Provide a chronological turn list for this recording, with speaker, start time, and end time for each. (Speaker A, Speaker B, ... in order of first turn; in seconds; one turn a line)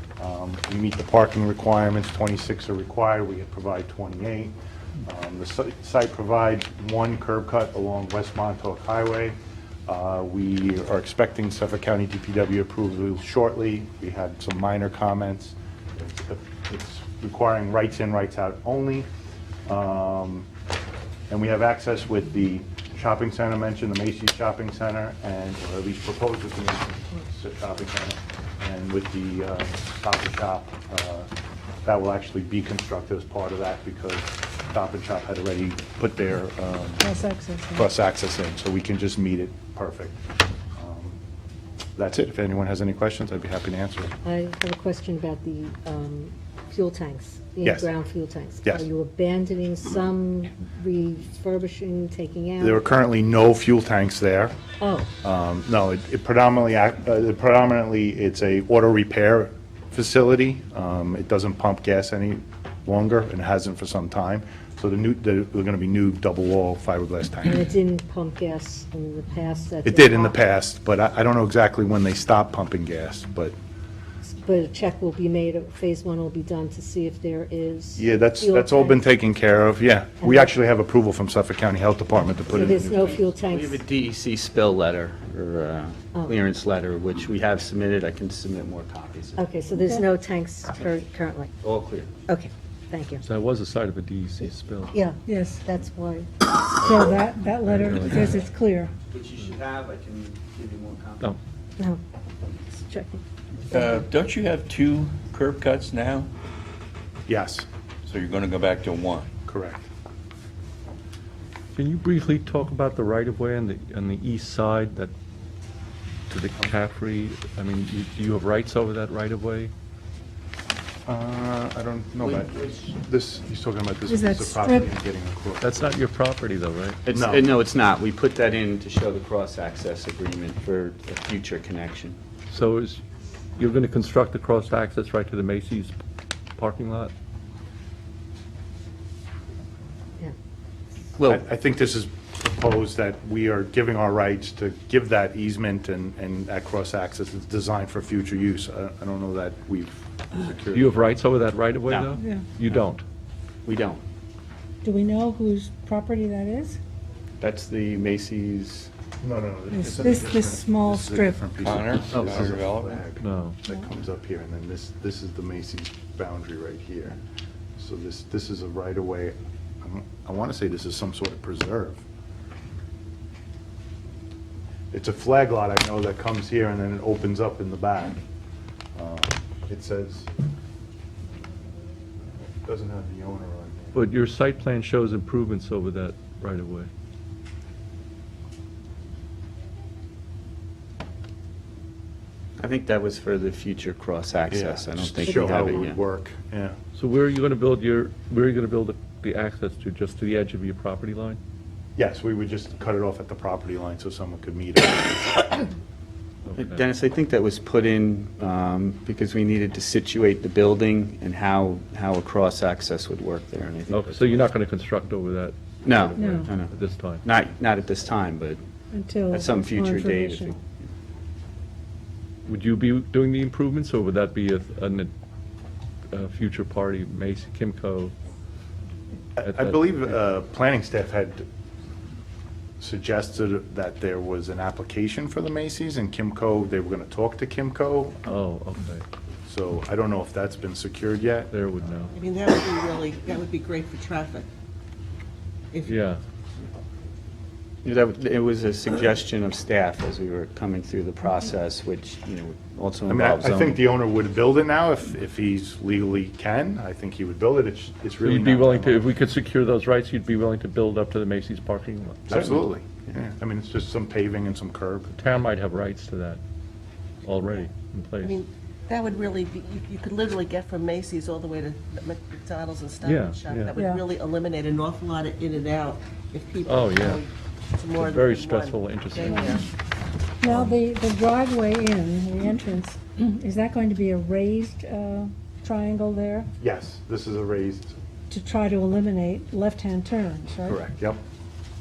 Speaker A: 0.2-19.1
Speaker A: 19.7-20.5
Speaker A: 21.3-31.3
Speaker A: 31.8-37.1
Speaker B: 37.0-37.9
Speaker A: 37.8-40.2
Speaker A: 40.8-41.2
Speaker A: 42.0-44.2
Speaker C: 44.2-53.0
Speaker A: 52.6-54.6
Speaker C: 54.8-55.1
Speaker A: 55.2-67.6
Speaker C: 67.4-70.4
Speaker A: 69.8-73.5
Speaker C: 74.2-79.0
Speaker A: 78.0-83.2
Speaker C: 80.2-80.5
Speaker C: 82.5-83.8
Speaker D: 82.6-89.4
Speaker C: 89.4-91.5
Speaker B: 89.7-90.0
Speaker D: 91.6-92.2
Speaker C: 92.3-93.2
Speaker E: 93.2-94.9
Speaker C: 94.9-96.3
Speaker B: 95.3-95.6
Speaker B: 96.7-98.9
Speaker E: 97.6-98.3
Speaker D: 99.1-101.3
Speaker C: 102.5-103.2
Speaker F: 103.7-106.3
Speaker A: 107.3-107.7
Speaker F: 108.1-109.3
Speaker A: 109.5-109.9
Speaker E: 111.8-115.1
Speaker E: 116.3-119.7
Speaker A: 121.1-126.0
Speaker D: 122.2-122.6
Speaker B: 124.1-124.9
Speaker E: 125.6-127.0
Speaker D: 127.1-132.2
Speaker A: 127.1-127.5
Speaker E: 132.5-133.0
Speaker E: 133.6-136.0
Speaker E: 136.6-137.1
Speaker D: 141.2-141.4
Speaker A: 141.2-151.0
Speaker E: 150.7-153.0
Speaker D: 151.9-152.2
Speaker B: 152.2-152.5
Speaker D: 153.7-154.0
Speaker B: 154.8-156.8
Speaker D: 157.4-158.9
Speaker A: 159.2-167.2
Speaker B: 159.7-161.6
Speaker F: 161.6-163.0
Speaker E: 163.2-163.6
Speaker A: 167.8-172.0
Speaker A: 174.9-178.2
Speaker A: 178.9-180.3
Speaker A: 182.6-184.1
Speaker E: 183.9-186.9
Speaker D: 192.6-196.0
Speaker A: 194.5-196.8
Speaker C: 195.3-195.8
Speaker E: 196.9-201.4
Speaker A: 202.0-205.7
Speaker E: 206.5-206.8
Speaker D: 206.6-214.5
Speaker E: 213.9-217.2
Speaker D: 215.8-218.6
Speaker B: 216.2-216.5
Speaker B: 218.9-220.6
Speaker D: 219.3-220.6
Speaker E: 222.5-225.1
Speaker E: 226.1-228.1
Speaker A: 229.4-231.4
Speaker E: 229.4-229.8
Speaker A: 232.8-238.3
Speaker E: 238.3-239.1
Speaker A: 239.5-241.6
Speaker E: 241.5-242.1
Speaker G: 242.1-244.5
Speaker G: 245.7-246.0
Speaker E: 245.9-246.2
Speaker D: 247.8-253.8
Speaker A: 253.1-259.1
Speaker E: 258.2-262.6
Speaker A: 262.3-265.1
Speaker E: 265.1-266.4
Speaker E: 267.2-268.4
Speaker G: 268.2-279.7
Speaker E: 273.0-273.7
Speaker B: 273.8-274.0
Speaker E: 276.6-277.2
Speaker E: 277.9-279.4
Speaker B: 279.3-279.6
Speaker B: 280.4-286.5
Speaker A: 286.6-287.9
Speaker B: 288.3-290.8
Speaker A: 290.9-291.2